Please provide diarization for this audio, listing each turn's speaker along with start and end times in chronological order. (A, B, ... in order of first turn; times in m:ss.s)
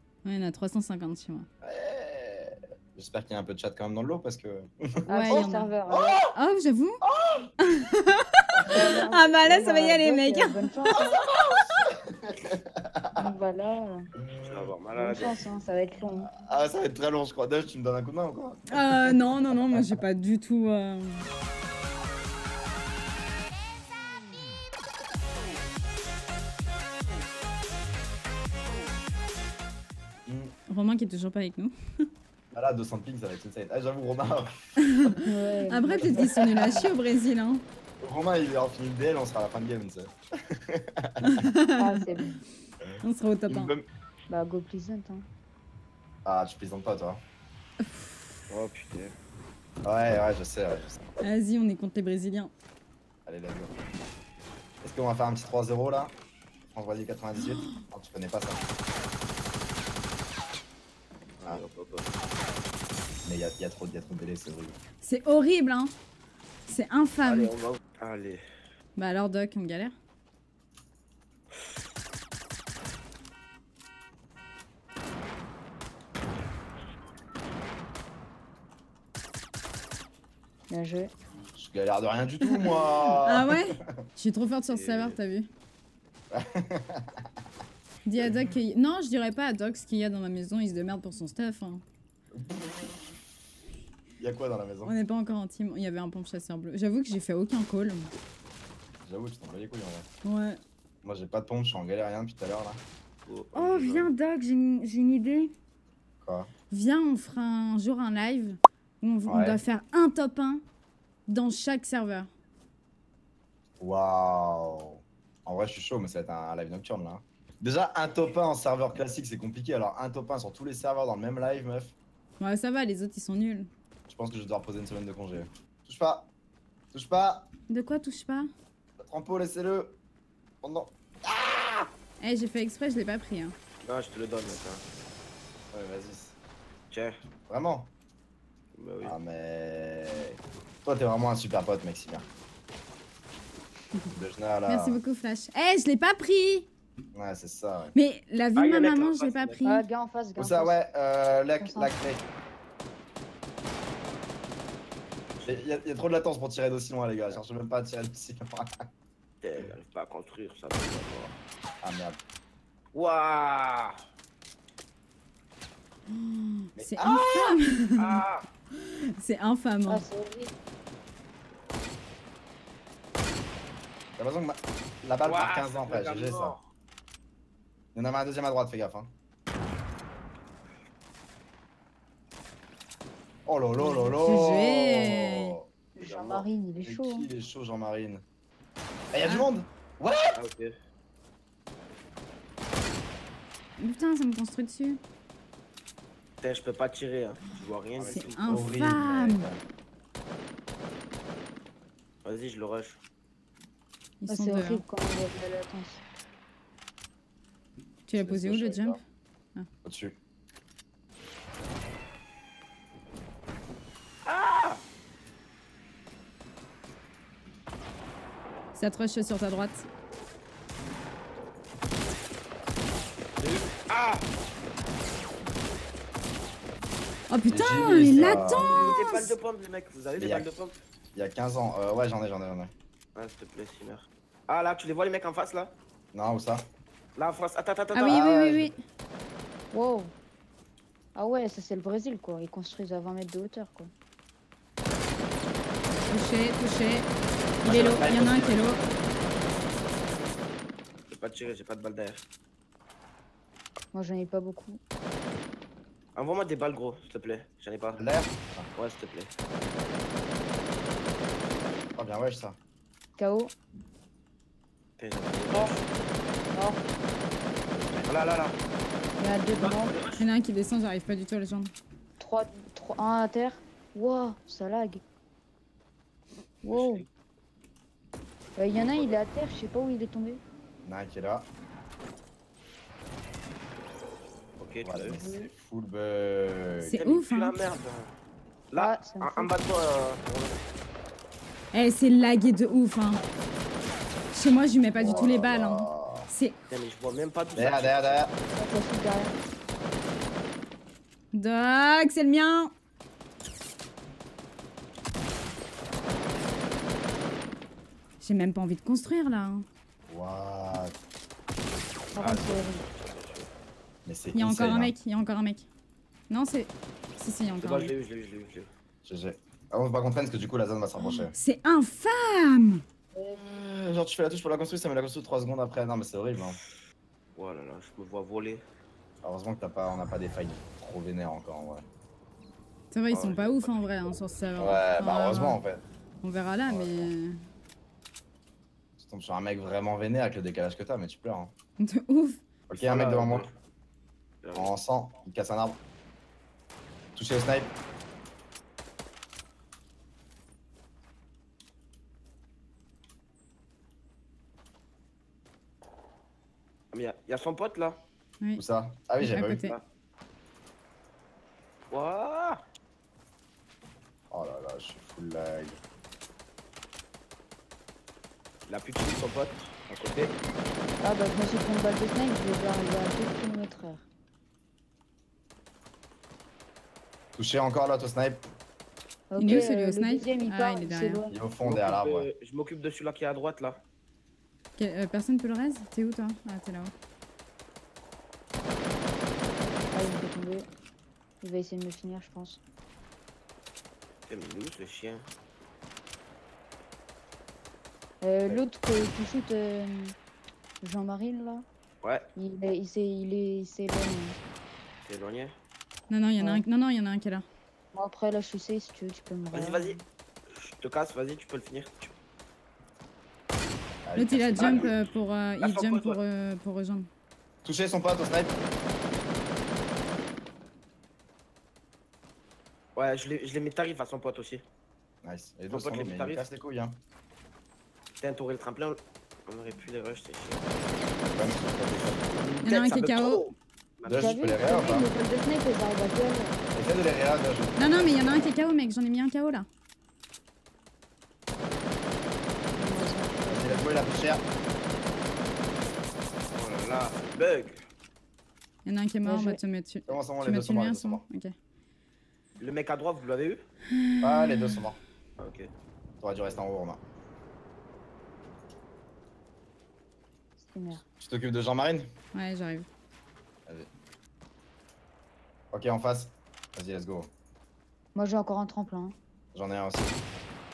0:00.2-0:01.5 A
0:01.6-0:06.3 B
0:05.1-0:06.2 C
0:05.1-0:05.7 A
0:06.4-0:07.0 A
0:07.1-0:07.5 B
0:07.6-0:08.5 A
0:08.6-0:09.0 B
0:08.7-0:11.2 C
0:09.1-0:10.9 A
0:11.0-0:13.2 B
0:13.2-0:14.0 C
0:14.2-0:14.7 B
0:14.4-0:15.4 D
0:14.9-0:16.3 C
0:16.2-0:20.0 B
0:18.7-0:21.3 A
0:30.3-0:30.5 B
0:30.7-0:31.7 A
0:32.5-0:34.5 B
0:34.8-0:37.6 A
0:35.2-0:36.9 C
0:38.0-0:41.3 B
0:41.2-0:42.0 A
0:41.8-0:42.3 C
0:42.8-0:43.9 B
0:43.0-0:43.7 A
0:44.3-0:45.3 C
0:46.2-0:47.2 B
0:48.5-0:49.2 D
0:49.8-0:51.0 B
0:51.2-0:52.5 A
0:53.3-0:53.8 B
0:54.8-0:56.1 B
0:56.7-0:58.6 B
1:01.4-1:02.2 D
1:03.2-1:04.8 B
1:05.0-1:05.9 A
1:06.7-1:07.5 A
1:07.2-1:08.4 D
1:09.0-1:09.9 A
1:20.7-1:21.1 C
1:21.6-1:24.0 B
1:22.4-1:25.5 A
1:24.7-1:25.2 D
1:26.3-1:27.2 B
1:28.0-1:31.8 A
1:32.3-1:33.0 B
1:34.2-1:35.0 B
1:34.8-1:38.1 A
1:39.0-1:40.1 B
1:40.2-1:40.6 A
1:41.0-1:42.8 B
1:43.3-1:44.1 D
1:43.6-1:45.5 A
1:46.2-1:46.5 B
1:46.7-1:50.6 A
1:49.3-1:49.6 B
1:51.3-1:52.3 A
1:53.8-2:02.0 B
2:02.4-2:03.7 A
2:04.1-2:06.3 B
2:06.9-2:07.5 B
2:07.7-2:08.5 A
2:09.0-2:10.0 B
2:10.6-2:11.9 B
2:12.2-2:13.6 A
2:13.8-2:14.8 D
2:15.7-2:16.4 B
2:16.9-2:17.2 D
2:17.5-2:17.9 B
2:18.8-2:19.2 D
2:19.0-2:22.2 B
2:24.1-2:25.0 B
2:24.7-2:26.7 A
2:27.1-2:28.0 B
2:27.9-2:29.8 A
2:28.6-2:29.6 D
2:29.6-2:30.8 C
2:30.4-2:32.3 B
2:31.6-2:32.0 C
2:35.3-2:35.6 D
2:35.5-2:38.8 B
2:39.4-2:41.4 D
2:41.8-2:42.2 B
2:42.9-2:44.0 D
2:46.1-2:48.2 A
2:46.8-2:47.6 B
2:48.0-2:48.5 D
2:48.8-2:50.0 A
2:49.9-2:50.5 C
2:54.2-2:56.6 B
2:55.2-2:56.7 D
2:58.0-2:59.1 B
3:03.5-3:05.7 B
3:03.8-3:04.1 C
3:04.2-3:05.6 A
3:06.0-3:07.3 C
3:06.0-3:06.5 D
3:06.8-3:08.2 B
3:09.1-3:10.4 B
3:09.2-3:09.5 A
3:10.4-3:10.7 D
3:13.8-3:15.0 A
3:16.4-3:18.8 D
3:18.0-3:19.6 B
3:18.1-3:19.5 A
3:22.2-3:23.0 D
3:24.2-3:24.8 A
3:24.3-3:26.0 C
3:28.1-3:29.0 A
3:28.2-3:29.0 B
3:29.8-3:30.2 B
3:34.2-3:34.8 D
3:38.8-3:39.8 A
3:43.4-3:44.3 D
3:47.3-3:49.3 A
3:47.5-3:48.9 B
3:48.7-3:50.8 D
3:50.2-3:50.5 B
3:51.1-3:52.7 B
3:53.2-3:55.8 D
3:56.1-3:56.6 B
3:57.2-3:58.6 D
3:57.9-3:58.8 A
3:58.1-3:58.7 B
3:59.7-4:00.1 C
4:01.2-4:03.9 C
4:06.1-4:07.1 A
4:07.6-4:08.9 B
4:07.6-4:08.8 A
4:11.1-4:12.2 D
4:13.9-4:14.8 C
4:16.2-4:18.1 D
4:18.0-4:18.7 B
4:18.8-4:19.3 D
4:22.0-4:22.6 B
4:23.2-4:23.5 C
4:25.0-4:25.9 D
4:25.5-4:25.8 C
4:26.5-4:26.8 C
4:27.7-4:28.0 B
4:28.0-4:28.6 D
4:29.2-4:31.7 A
4:29.3-4:30.0 C
4:29.5-4:30.2 D
4:32.2-4:35.0 C
4:36.6-4:37.0 C
4:36.7-4:37.1 D
4:38.6-4:40.4 C
4:38.7-4:39.2 D
4:40.8-4:41.5 B
4:44.6-4:45.2 D
4:44.8-4:47.0 B
4:45.2-4:45.5 C
4:46.8-4:47.6 A
4:47.0-4:48.1 D
4:48.7-4:50.6 D
4:48.8-4:49.5 C
4:51.7-4:53.2 A
4:54.3-4:56.6 A
4:55.0-4:56.3 B
4:56.7-4:58.3 D
4:57.6-4:58.3 B
4:58.5-4:59.4 C
5:01.3-5:02.7 A
5:08.2-5:09.6 A
5:10.1-5:11.0 B
5:12.2-5:12.8 C
5:12.2-5:13.5 D
5:14.0-5:15.0 B
5:14.3-5:15.7 A
5:16.3-5:17.9 A
5:17.6-5:18.7 D
5:19.0-5:21.3 B
5:21.0-5:22.8 A
5:23.1-5:23.4 C
5:23.4-5:26.6 B
5:27.4-5:28.6 D
5:29.2-5:31.9 B
5:32.9-5:35.6 A
5:33.1-5:34.4 D
5:34.6-5:35.8 B
5:36.2-5:37.4 A
5:36.7-5:37.1 B
5:39.0-5:41.5 B
5:41.8-5:42.4 A
5:42.7-5:43.5 B
5:42.7-5:43.5 D
5:44.4-5:44.7 D
5:44.6-5:45.8 B
5:47.2-5:47.8 B
5:56.9-5:58.0 D
5:58.6-5:59.7 B
5:59.2-5:59.8 A
6:01.9-6:02.6 D
6:04.3-6:05.8 B
6:08.7-6:10.4 D
6:11.0-6:14.1 C
6:17.4-6:18.5 B
6:19.3-6:21.4 C
6:19.4-6:21.2 A
6:19.4-6:19.7 B
6:21.3-6:22.3 B
6:21.6-6:23.8 D
6:24.8-6:26.9 A
6:29.9-6:30.7 C
6:31.4-6:32.6 C
6:34.3-6:35.3 D
6:38.2-6:40.2 C
6:40.8-6:41.6 C
6:42.0-6:42.3 D
6:42.4-6:44.4 C
6:45.0-6:45.6 D
6:46.1-6:47.5 A
6:46.4-6:46.6 C
6:47.9-6:50.0 C
6:49.5-6:50.0 D
6:50.5-6:52.1 D
6:54.0-6:54.9 B
6:54.2-6:57.1 A
6:54.7-6:54.9 D
6:55.6-6:56.2 D
6:57.6-6:58.6 B
7:03.0-7:04.6 D
7:05.2-7:07.0 B
7:05.7-7:06.5 D
7:08.2-7:10.7 D
7:11.3-7:12.6 B
7:12.0-7:14.3 D
7:12.6-7:13.4 A
7:14.0-7:15.1 B
7:14.2-7:16.6 C
7:16.8-7:18.5 B
7:17.8-7:19.7 A
7:22.8-7:23.9 C
7:23.4-7:24.4 B
7:26.5-7:27.8 D
7:28.8-7:31.5 A
7:29.2-7:29.6 C
7:30.1-7:31.2 B
7:32.6-7:33.6 D
7:34.0-7:34.8 A
7:34.2-7:35.0 B
7:35.4-7:35.7 D
7:36.2-7:37.0 B
7:40.6-7:41.0 C
7:41.2-7:42.1 B
7:42.3-7:42.9 A
7:45.7-7:47.3 B
7:48.1-7:49.2 C
7:49.5-7:50.2 B